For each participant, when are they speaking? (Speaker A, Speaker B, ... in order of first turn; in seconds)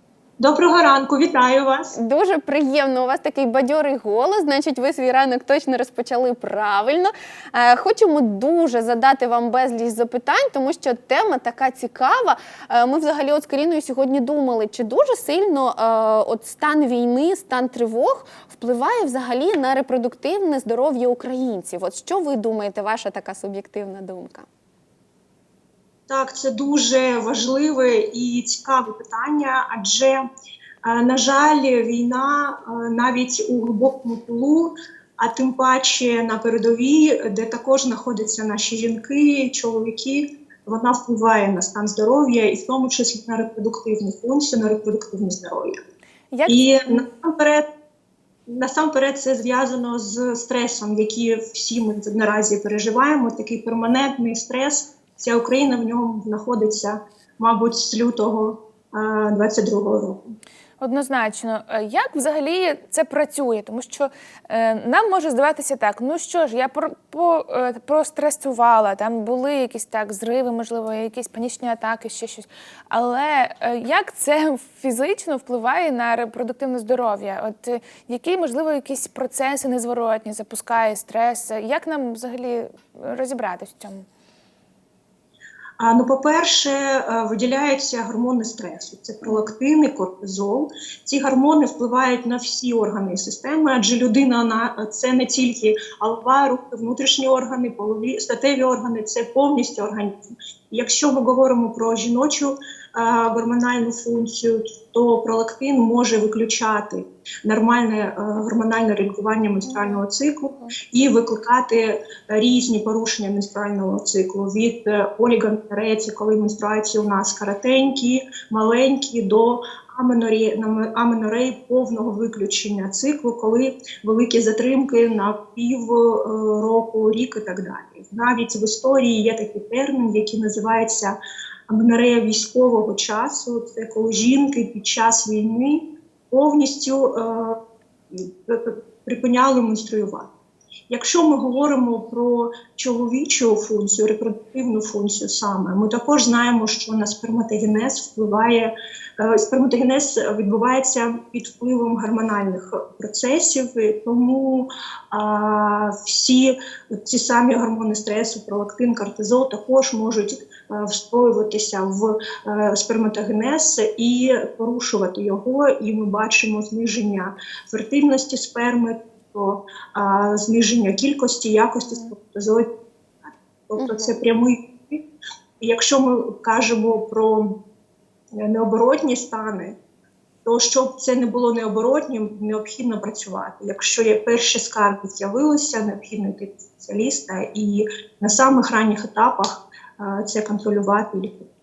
Speaker A: 0.4-1.9, 26.1-30.2, 30.8-45.8, 46.5-47.6, 48.5-60.4, 85.8-131.2, 131.7-137.6, 138.1-140.3, 140.9-172.7, 173.2-175.0, 175.6-177.5, 178.3-179.7, 180.4-191.5
Speaker B: 1.9-24.4, 173.8-174.2
Speaker C: 46.3-46.7, 60.8-84.0, 109.6-110.0